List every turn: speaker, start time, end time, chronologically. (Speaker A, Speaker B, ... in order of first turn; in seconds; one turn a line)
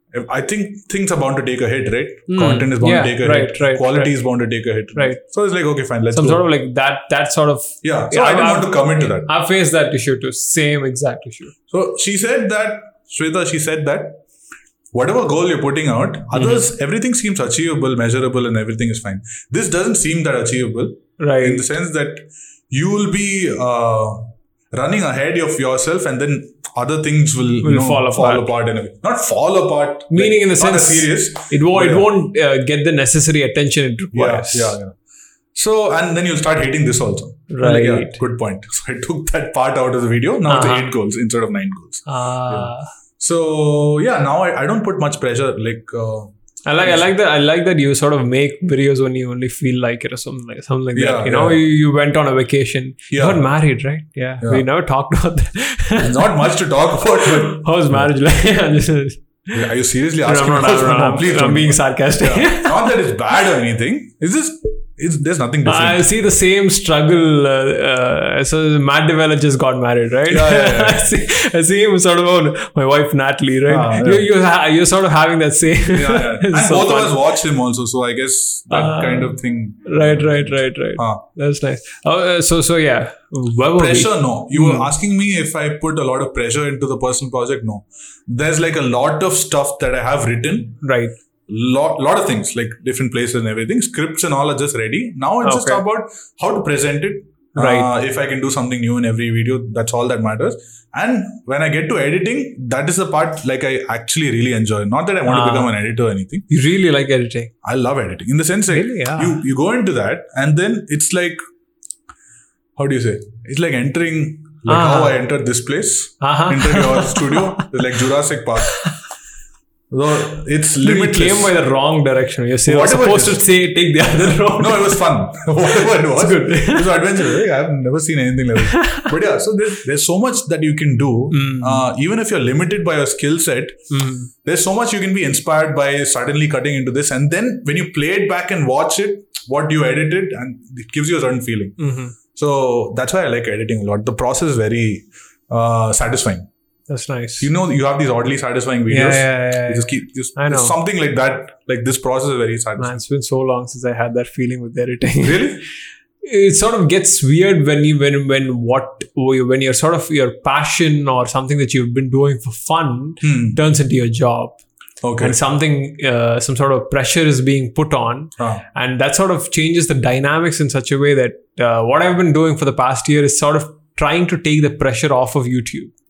Speaker A: 0.1-6.5
Speaker B: 2.3-4.1
Speaker B: 6.1-11.5
Speaker A: 7.8-9.3
Speaker A: 11.7-14.2
Speaker A: 14.9-32.1
Speaker B: 16.3-16.7
Speaker B: 21.2-21.6
Speaker B: 27.6-28.5
Speaker B: 30.1-34.8
Speaker A: 34.1-34.9
Speaker A: 35.5-47.1
Speaker B: 37.5-38.2
Speaker B: 40.5-40.9
Speaker B: 42.0-42.9
Speaker B: 46.6-56.3
Speaker A: 50.9-51.6
Speaker A: 53.1-53.4
Speaker A: 56.0-58.1
Speaker B: 57.0-59.5
Speaker A: 59.5-66.1
Speaker B: 60.2-63.0
Speaker B: 65.6-77.2
Speaker A: 70.3-71.1
Speaker A: 73.7-74.3
Speaker A: 75.9-81.2
Speaker B: 78.7-84.9
Speaker A: 83.8-90.8
Speaker B: 90.8-91.1
Speaker A: 91.5-106.5
Speaker B: 95.4-95.8
Speaker B: 97.5-97.9
Speaker B: 105.3-105.7
Speaker B: 106.5-107.5
Speaker A: 107.6-111.4
Speaker B: 108.7-109.4
Speaker A: 112.8-118.8
Speaker B: 114.7-115.2
Speaker B: 116.2-117.8
Speaker B: 118.7-118.9
Speaker A: 119.9-121.5
Speaker B: 120.8-125.1
Speaker A: 122.7-123.5
Speaker A: 124.1-133.9
Speaker B: 125.7-127.3
Speaker B: 128.6-129.1
Speaker B: 131.3-131.8
Speaker B: 133.9-134.3
Speaker A: 134.4-141.8
Speaker B: 141.8-142.1
Speaker A: 142.3-146.5
Speaker B: 146.9-147.5
Speaker A: 147.4-153.0
Speaker B: 148.9-150.7
Speaker B: 152.8-155.6
Speaker A: 155.2-155.6
Speaker B: 156.2-164.6
Speaker A: 163.2-163.6
Speaker A: 165.0-165.3
Speaker B: 165.2-175.9
Speaker A: 168.4-168.6